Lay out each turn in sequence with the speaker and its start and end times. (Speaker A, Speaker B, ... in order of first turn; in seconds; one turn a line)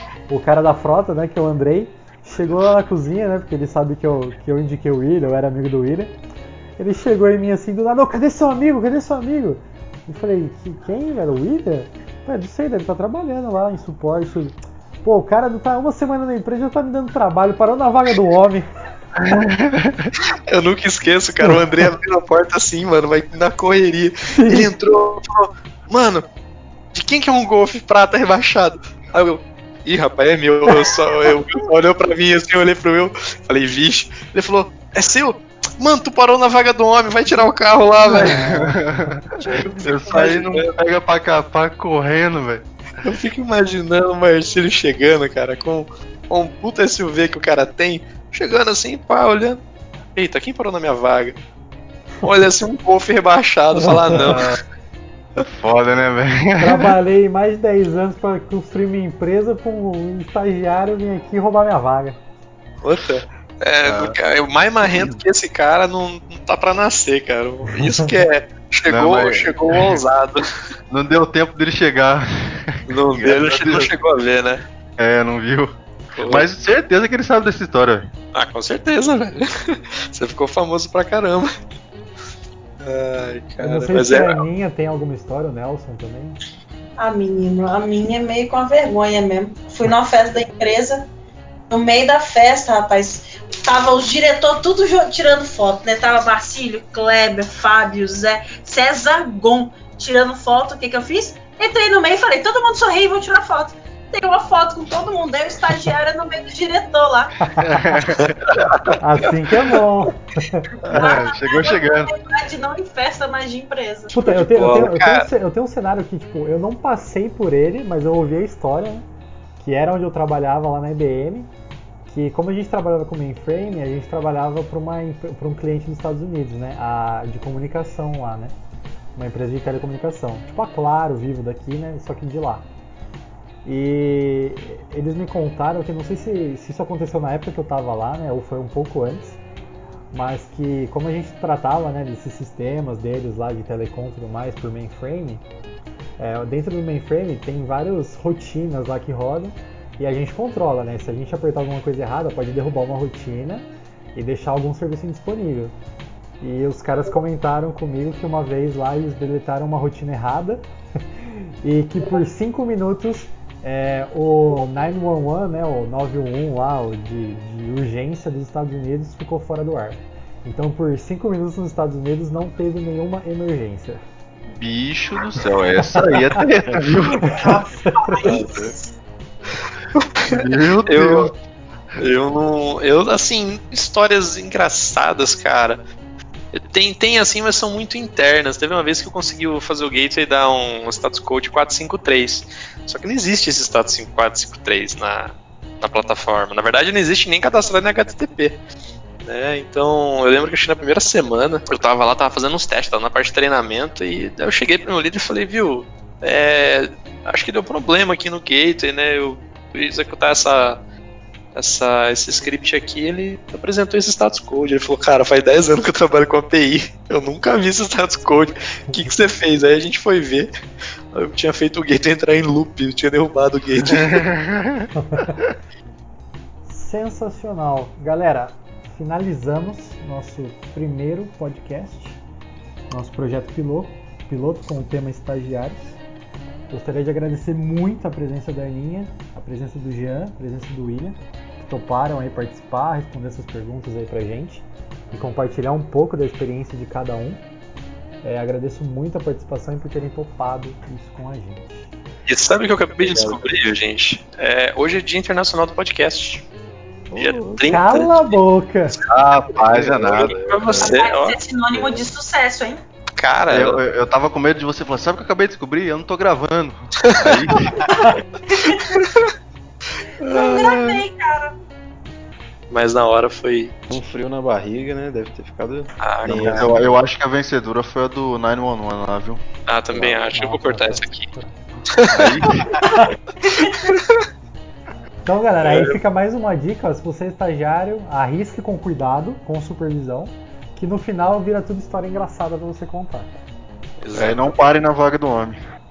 Speaker A: 0.3-6.1
Speaker A: 6.8-18.7
Speaker B: 19.1-20.1
Speaker C: 20.2-26.2
Speaker A: 24.3-24.7
Speaker C: 26.9-38.6
Speaker B: 38.1-42.6
Speaker A: 38.2-38.8
Speaker C: 39.8-40.7
Speaker C: 43.0-49.6
Speaker C: 50.1-51.4
Speaker C: 52.2-54.6
Speaker A: 53.8-54.4
Speaker B: 54.2-54.6
Speaker B: 55.4-56.9
Speaker A: 56.6-62.2
Speaker C: 62.8-70.5
Speaker B: 63.8-64.2
Speaker B: 68.9-70.0
Speaker B: 70.9-73.9
Speaker C: 72.9-74.6
Speaker B: 75.0-75.7
Speaker C: 76.1-76.5
Speaker B: 76.2-78.1
Speaker C: 78.3-81.5
Speaker C: 82.8-84.4
Speaker A: 83.6-86.4
Speaker D: 87.0-91.1
Speaker D: 91.7-107.5
Speaker A: 107.5-108.0
Speaker B: 107.6-108.9
Speaker A: 109.0-110.8
Speaker B: 110.8-112.1
Speaker D: 110.9-114.1
Speaker A: 114.1-119.0
Speaker C: 114.2-115.3
Speaker A: 119.6-121.5
Speaker A: 122.1-128.5
Speaker A: 129.1-132.7
Speaker A: 133.6-139.4
Speaker A: 140.1-145.4
Speaker A: 146.2-155.7
Speaker A: 156.4-160.6
Speaker A: 161.3-174.0
Speaker B: 174.5-177.3
Speaker A: 175.9-178.6
Speaker D: 177.1-178.9
Speaker E: 178.4-178.7
Speaker C: 180.0-181.3
Speaker B: 180.3-181.3
Speaker C: 182.0-185.8
Speaker C: 186.5-198.6
Speaker C: 199.2-210.8
Speaker C: 211.5-220.5
Speaker C: 221.1-224.3
Speaker B: 223.9-224.9
Speaker A: 224.9-225.4
Speaker A: 226.7-232.2
Speaker A: 232.9-236.0
Speaker A: 236.7-247.4
Speaker A: 248.2-251.9
Speaker C: 252.3-256.5
Speaker E: 253.1-253.5
Speaker C: 257.1-258.4
Speaker A: 257.2-259.0
Speaker B: 259.1-260.4
Speaker C: 259.6-261.4
Speaker E: 259.7-260.9
Speaker D: 260.5-262.8
Speaker C: 263.2-263.8
Speaker B: 263.5-267.8
Speaker C: 267.0-267.9
Speaker D: 268.5-269.0
Speaker C: 268.6-269.3
Speaker C: 270.0-271.0
Speaker D: 270.2-271.6
Speaker C: 272.7-273.8
Speaker E: 273.9-277.0
Speaker C: 276.0-276.7
Speaker B: 276.2-279.4
Speaker C: 279.7-281.3
Speaker A: 280.0-281.8
Speaker C: 281.9-282.5
Speaker B: 282.1-282.7
Speaker E: 282.2-282.5
Speaker A: 282.5-283.1
Speaker C: 283.8-284.2
Speaker A: 285.2-293.4
Speaker C: 294.0-294.7
Speaker B: 294.1-295.6